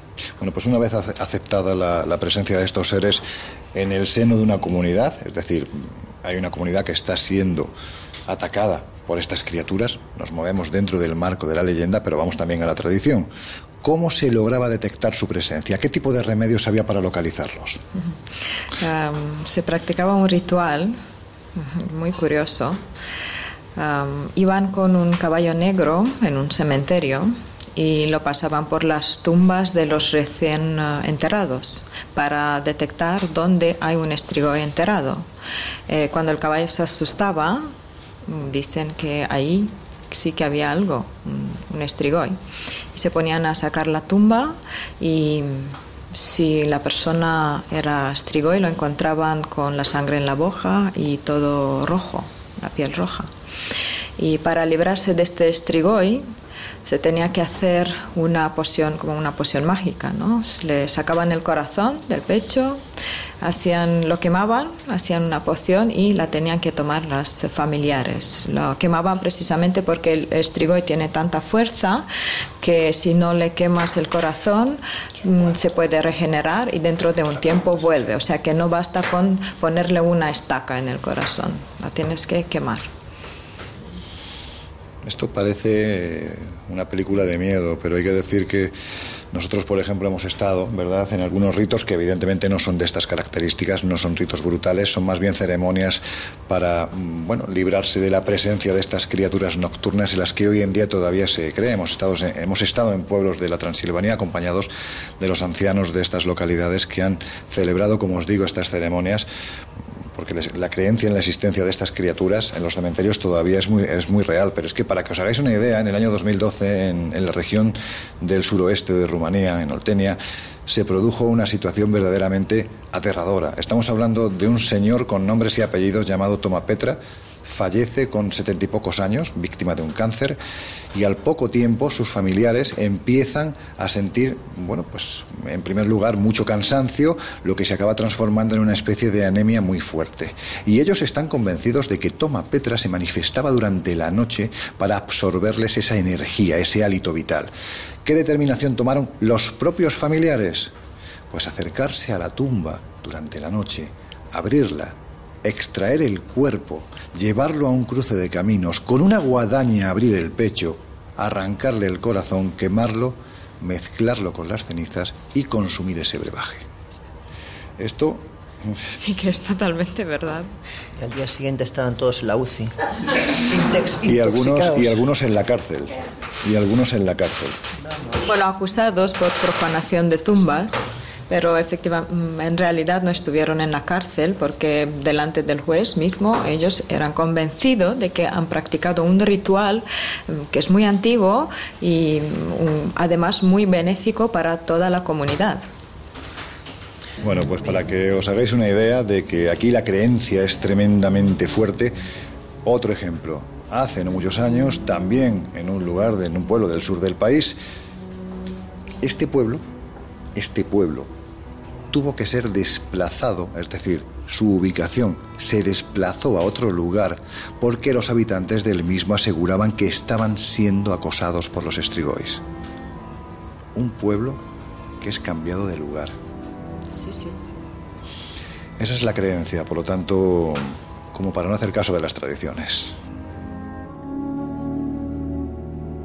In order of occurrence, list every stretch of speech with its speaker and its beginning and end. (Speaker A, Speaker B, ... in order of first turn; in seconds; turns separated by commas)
Speaker A: 0.4-3.2, Speaker A: 3.8-7.7, Speaker A: 8.3-13.3, Speaker A: 13.8-17.8, Speaker B: 18.8-21.0, Speaker B: 21.6-22.8, Speaker B: 23.8-35.2, Speaker B: 35.9-37.7, Speaker B: 38.3-42.4, Speaker B: 42.9-53.3, Speaker B: 54.2-56.2, Speaker B: 56.9-62.8, Speaker B: 63.4-72.1, Speaker B: 72.6-82.9, Speaker A: 85.0-88.7, Speaker A: 89.3-109.3, Speaker A: 110.2-130.4, Speaker A: 130.9-147.5, Speaker A: 148.1-150.7, Speaker A: 151.3-166.7, Speaker A: 167.8-168.9, Speaker B: 168.9-170.5, Speaker C: 171.0-172.8, Speaker C: 173.4-175.0, Speaker A: 174.1-177.6, Speaker C: 177.8-178.2, Speaker B: 178.2-195.6, Speaker A: 197.2-201.9, Speaker A: 202.6-207.6, Speaker A: 209.0-209.6, Speaker A: 210.3-211.1, Speaker A: 211.9-222.4, Speaker A: 223.8-224.4, Speaker A: 225.0-226.2, Speaker B: 226.9-227.6, Speaker A: 228.8-233.0